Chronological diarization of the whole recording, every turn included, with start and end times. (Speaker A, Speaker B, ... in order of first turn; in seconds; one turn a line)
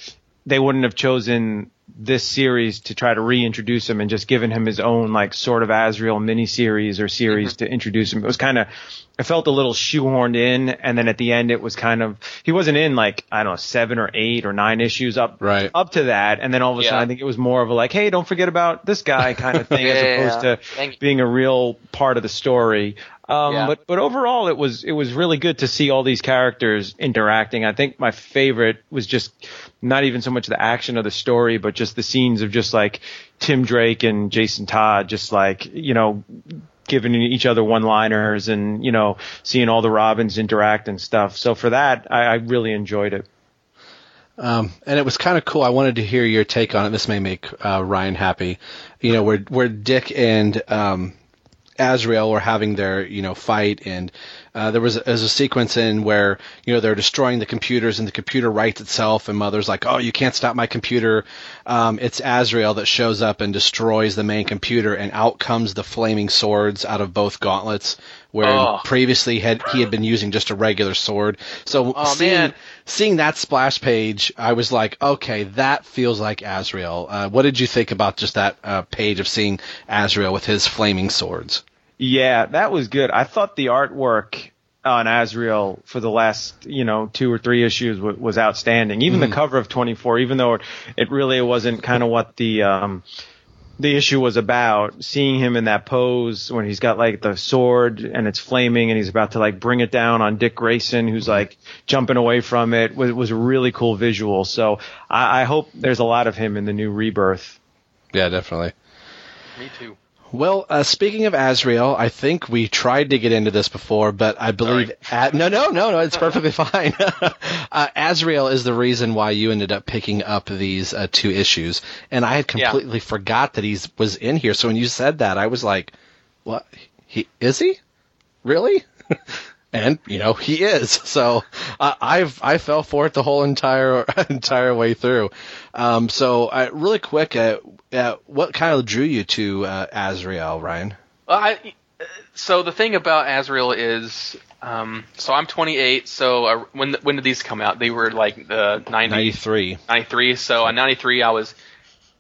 Speaker A: 0.5-43.3
Speaker B: 7.3-7.5
Speaker C: 15.4-15.7
Speaker B: 16.8-17.1
Speaker B: 19.8-21.0
Speaker B: 23.5-23.8
Speaker C: 44.4-51.1
Speaker C: 51.8-81.6
Speaker B: 68.4-68.9
Speaker B: 72.0-72.5
Speaker A: 82.0-93.0
Speaker C: 89.1-89.4
Speaker A: 93.8-107.6
Speaker C: 108.1-108.7
Speaker B: 109.6-110.0
Speaker C: 110.3-125.9
Speaker C: 126.5-127.8
Speaker C: 128.4-128.9
Speaker C: 129.7-141.0
Speaker B: 141.3-151.5
Speaker C: 149.1-149.8